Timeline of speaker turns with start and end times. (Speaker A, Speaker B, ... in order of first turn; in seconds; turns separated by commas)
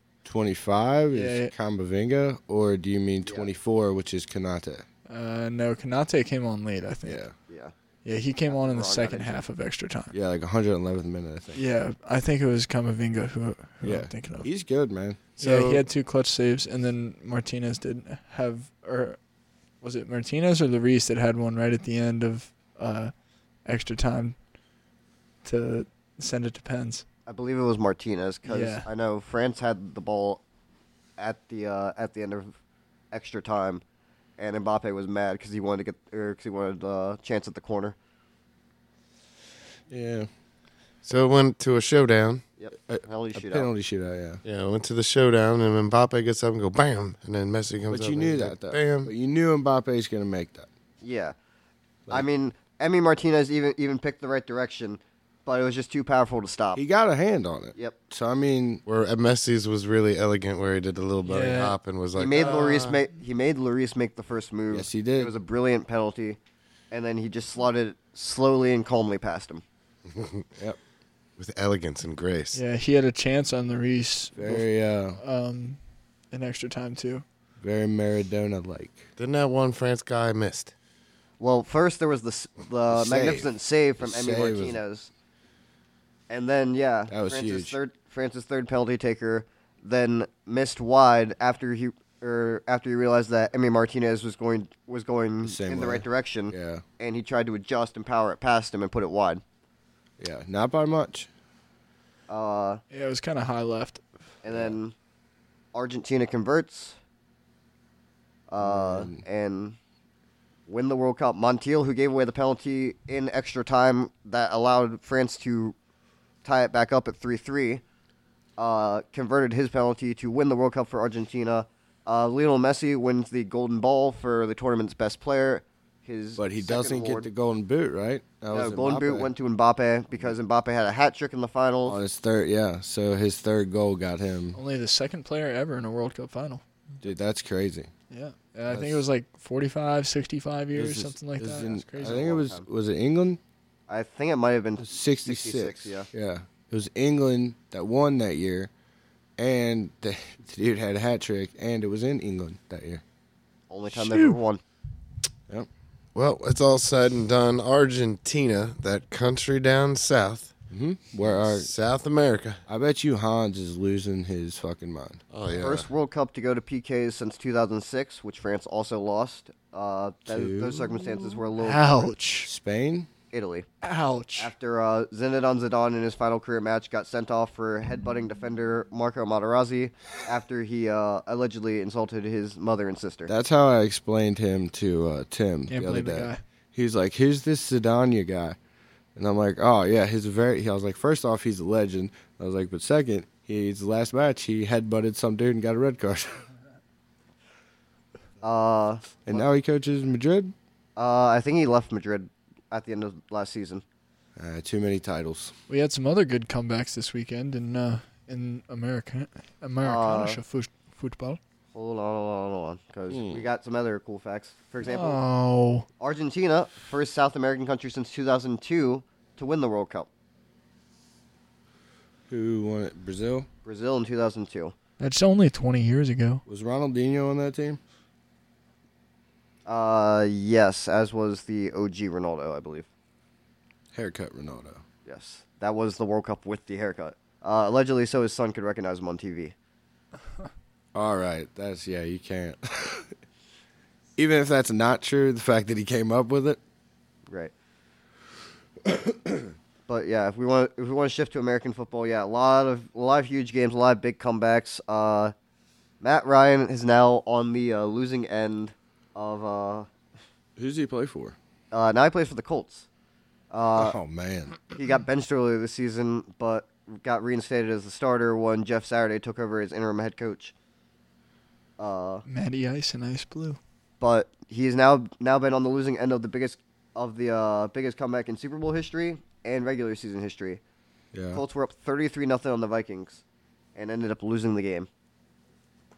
Speaker A: 0.2-4.8, Speaker B: 1.1-1.5, Speaker C: 3.2-3.5, Speaker B: 5.1-7.2, Speaker A: 7.0-7.3, Speaker C: 7.5-7.7, Speaker B: 8.1-10.1, Speaker C: 8.5-9.4, Speaker A: 10.1-11.6, Speaker B: 11.5-14.5, Speaker A: 13.8-15.2, Speaker D: 15.4-15.8, Speaker B: 15.4-19.2, Speaker B: 19.8-23.1, Speaker B: 23.6-24.4, Speaker B: 25.4-27.0, Speaker C: 27.3-30.4, Speaker B: 28.5-28.9, Speaker C: 31.2-32.5, Speaker C: 33.1-33.8, Speaker C: 34.4-38.0, Speaker A: 39.9-40.3, Speaker D: 41.0-42.4, Speaker C: 42.6-43.7, Speaker A: 42.9-44.4, Speaker D: 44.5-49.1, Speaker A: 47.9-50.7, Speaker C: 51.0-51.4, Speaker C: 52.1-56.8, Speaker A: 56.7-58.8, Speaker D: 58.9-63.0, Speaker B: 61.3-61.8, Speaker C: 62.1-66.4, Speaker A: 64.7-65.3, Speaker C: 66.9-69.6, Speaker D: 70.1-70.5, Speaker D: 71.4-72.6, Speaker B: 72.5-75.8, Speaker A: 74.3-75.2, Speaker B: 76.3-77.2, Speaker A: 77.6-79.1, Speaker D: 79.2-80.7, Speaker C: 81.4-85.1, Speaker A: 82.9-84.8, Speaker C: 86.3-99.4, Speaker A: 87.1-87.8, Speaker A: 95.4-96.8, Speaker A: 100.2-101.3, Speaker C: 102.3-102.8, Speaker B: 102.9-104.0, Speaker C: 104.4-104.9, Speaker C: 105.7-107.0, Speaker C: 108.5-109.8, Speaker A: 108.6-109.2, Speaker C: 110.7-115.8, Speaker C: 116.4-117.8, Speaker C: 118.6-127.3, Speaker A: 126.4-129.3, Speaker C: 128.5-132.0, Speaker A: 131.9-134.6, Speaker B: 134.6-136.6, Speaker A: 137.0-137.9, Speaker B: 138.1-142.3, Speaker A: 138.7-139.0, Speaker A: 140.7-143.4, Speaker C: 142.0-142.7, Speaker C: 143.9-146.1, Speaker A: 144.8-148.7, Speaker A: 149.4-153.0, Speaker C: 153.7-154.6, Speaker B: 153.9-154.4, Speaker D: 156.2-160.6, Speaker A: 160.7-161.7, Speaker D: 161.2-162.6, Speaker A: 162.7-165.2, Speaker D: 165.3-165.9, Speaker C: 165.5-172.1, Speaker A: 170.3-170.9, Speaker B: 171.6-172.5, Speaker A: 172.4-173.1, Speaker C: 173.3-173.7, Speaker B: 173.8-174.5, Speaker C: 174.4-183.3, Speaker A: 183.3-188.6, Speaker B: 185.7-186.4, Speaker A: 189.2-196.3, Speaker C: 198.4-199.5, Speaker A: 199.2-200.5, Speaker C: 201.0-203.8, Speaker A: 204.4-205.5, Speaker B: 205.7-211.4, Speaker C: 209.8-210.4, Speaker C: 211.7-215.2, Speaker A: 213.1-213.5, Speaker B: 214.8-215.9, Speaker C: 216.0-220.1, Speaker A: 222.3-223.5, Speaker C: 223.7-224.7, Speaker B: 225.0-226.4, Speaker A: 226.5-227.8, Speaker C: 229.7-232.9, Speaker A: 233.9-234.8, Speaker C: 235.1-239.5, Speaker A: 240.9-243.1, Speaker A: 244.2-246.6, Speaker A: 248.9-249.2, Speaker C: 249.9-255.3, Speaker C: 256.0-259.9, Speaker A: 260.6-261.4, Speaker C: 261.7-262.9, Speaker C: 263.5-264.0, Speaker A: 263.8-264.6, Speaker C: 264.7-270.5, Speaker C: 271.8-272.2, Speaker B: 272.3-273.6, Speaker C: 274.0-280.6, Speaker A: 281.1-281.4, Speaker C: 281.3-283.2, Speaker C: 283.8-284.9